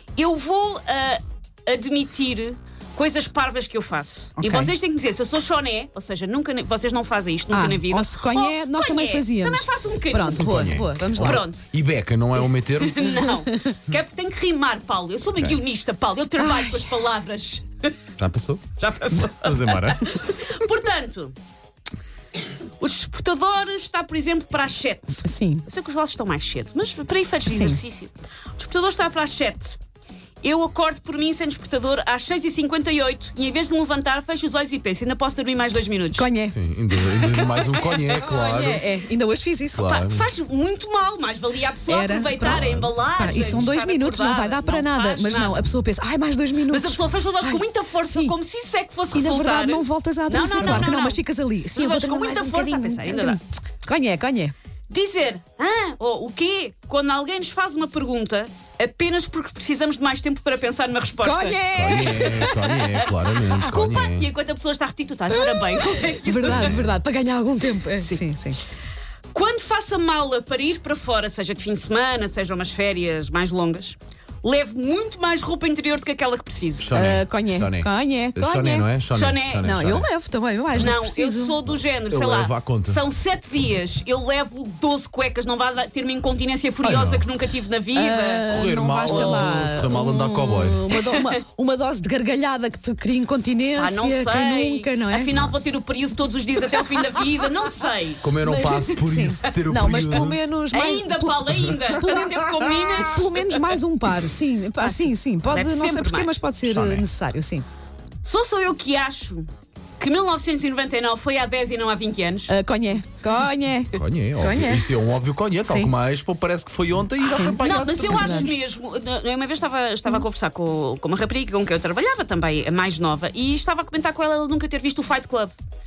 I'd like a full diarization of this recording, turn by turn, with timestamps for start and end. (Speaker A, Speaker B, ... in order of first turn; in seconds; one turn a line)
Speaker A: 0.1-11.7
Speaker B: 4.4-4.7
Speaker B: 7.5-11.4
Speaker C: 10.3-13.2
Speaker A: 12.7-17.9
Speaker C: 15.3-15.6
Speaker B: 16.4-16.9
Speaker C: 18.2-20.4
Speaker A: 18.8-21.3
Speaker A: 22.8-29.8
Speaker B: 25.2-25.6
Speaker B: 27.4-27.8
Speaker A: 30.4-36.3
Speaker B: 36.1-36.5
Speaker C: 36.5-38.9
Speaker A: 37.0-38.2
Speaker B: 38.1-39.9
Speaker C: 39.7-40.3
Speaker A: 39.8-45.6
Speaker B: 41.9-48.3
Speaker C: 42.5-43.7
Speaker A: 46.7-51.2
Speaker B: 49.1-54.5
Speaker A: 51.7-53.4
Speaker A: 54.9-66.8
Speaker B: 61.2-62.9
Speaker C: 61.7-64.3
Speaker B: 65.3-68.6
Speaker C: 66.5-66.9
Speaker A: 69.3-76.9
Speaker C: 76.8-80.1
Speaker B: 76.9-78.9
Speaker A: 79.1-79.7
Speaker B: 79.6-81.6
Speaker A: 80.7-88.5
Speaker C: 81.7-83.0
Speaker C: 86.8-87.3
Speaker B: 87.9-95.3
Speaker C: 88.5-90.9
Speaker A: 89.1-89.5
Speaker A: 90.9-91.3
Speaker A: 93.8-98.2
Speaker C: 98.2-100.4
Speaker B: 98.4-107.6
Speaker A: 100.7-103.7
Speaker A: 104.8-106.3
Speaker C: 106.6-107.0
Speaker A: 108.2-112.5
Speaker B: 112.5-114.9
Speaker C: 113.9-118.5
Speaker B: 115.6-115.9
Speaker B: 117.2-118.5
Speaker A: 117.6-125.5